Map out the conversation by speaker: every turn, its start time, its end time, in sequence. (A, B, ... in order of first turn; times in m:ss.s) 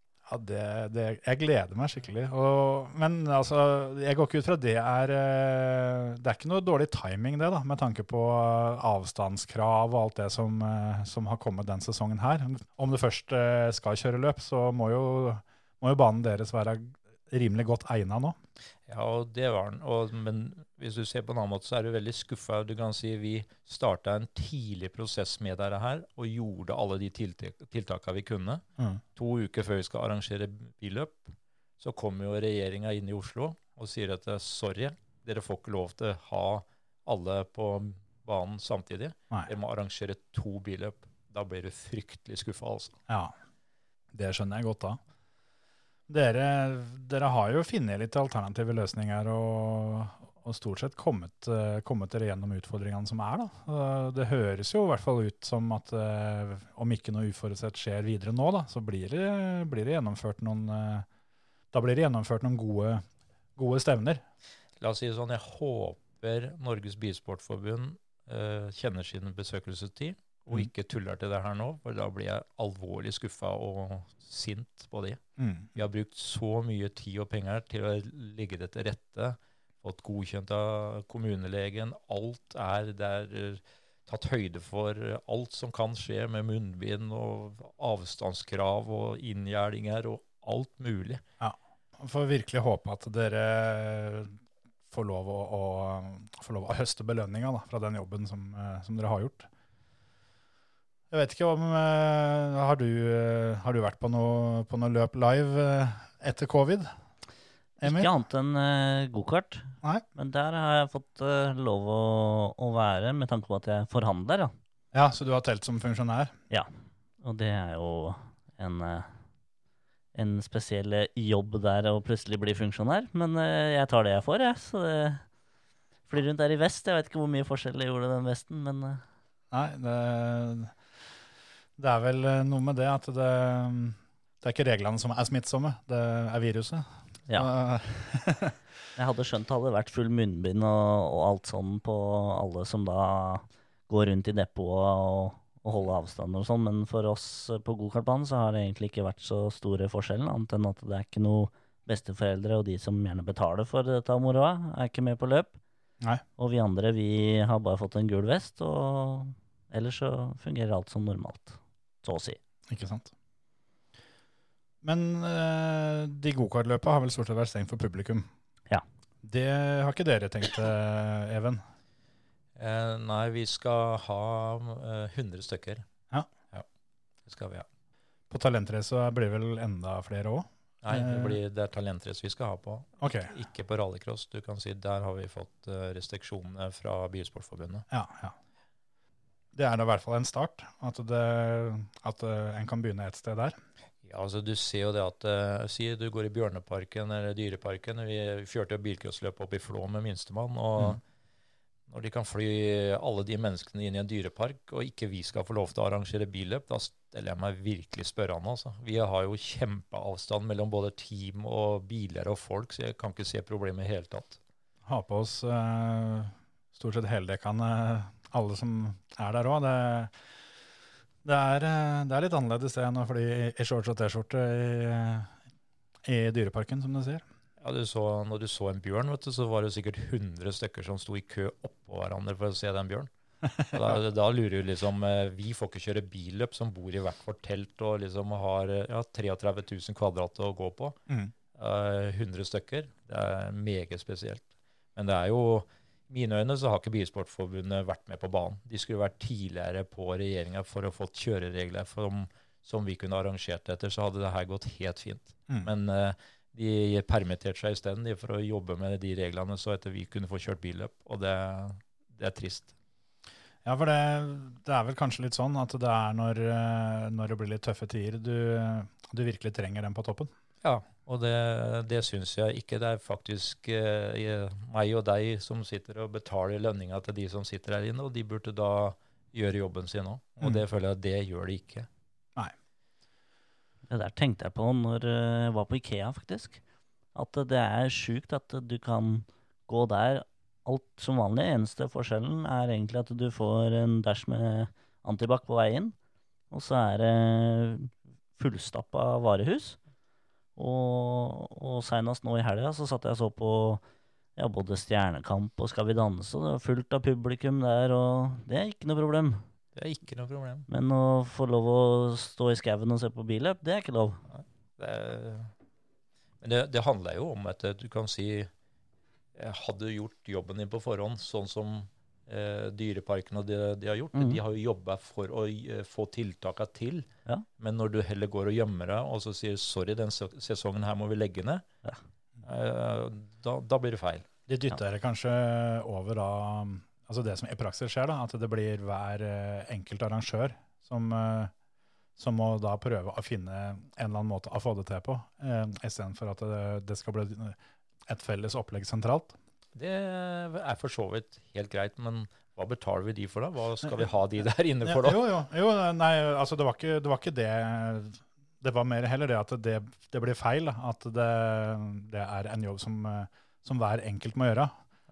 0:00.3-0:18.4 A
0:18.9-0:28.6 B
0:29.2-0:43.0 B
0:43.1-0:43.3 A
0:44.1-0:45.0 A
0:46.1-1:01.0 A
1:01.7-1:03.0 A
1:03.6-1:04.2 A
1:04.8-1:15.2 B
1:15.4-1:15.7 A
1:15.7-1:31.2 B
1:31.4-1:34.4 A
1:34.9-1:39.5 A
1:41.1-1:46.9 A
1:47.8-1:48.1 A
1:47.8-1:54.5 C
1:54.9-1:56.3 A
1:57.2-1:59.1 C
2:00.1-2:05.2 C
2:06.1-2:09.0 C
2:09.5-2:10.7 A
2:11.8-2:18.6 A
2:19.0-2:35.6 C
2:36.4-2:42.4 C
2:42.7-2:43.1 A
2:44.8-2:48.3 A
2:49.2-2:51.6 A
2:52.6-2:55.8 B
2:57.2-2:57.7 B
2:58.3-3:01.4 A
3:00.8-3:07.9 B
3:03.0-3:03.3 A
3:07.9-3:08.3 A
3:09.5-3:13.6 A
3:14.0-3:21.0 B
3:21.9-3:34.4 B
3:34.8-3:40.1 A
3:41.2-3:45.3 A
3:46.0-3:47.2 A
3:47.6-3:53.1 B
3:53.7-4:01.0 B
4:01.5-4:22.7 B
4:23.6-4:30.3 A
4:30.6-4:41.9 B
4:43.9-4:46.6 C
4:47.1-4:56.0 C
4:56.5-4:59.8 C
5:00.6-5:03.8 C
5:04.4-5:09.4 C
5:09.7-5:10.7 B
5:10.7-5:14.2 C
5:14.3-5:15.5 B
5:16.4-5:18.5 B
5:19.4-5:31.6 B
5:24.1-5:24.4 C
5:32.4-5:34.3 B
5:34.5-5:41.5 A
5:42.2-5:49.4 A
5:49.7-5:55.2 B
5:54.8-6:04.7 A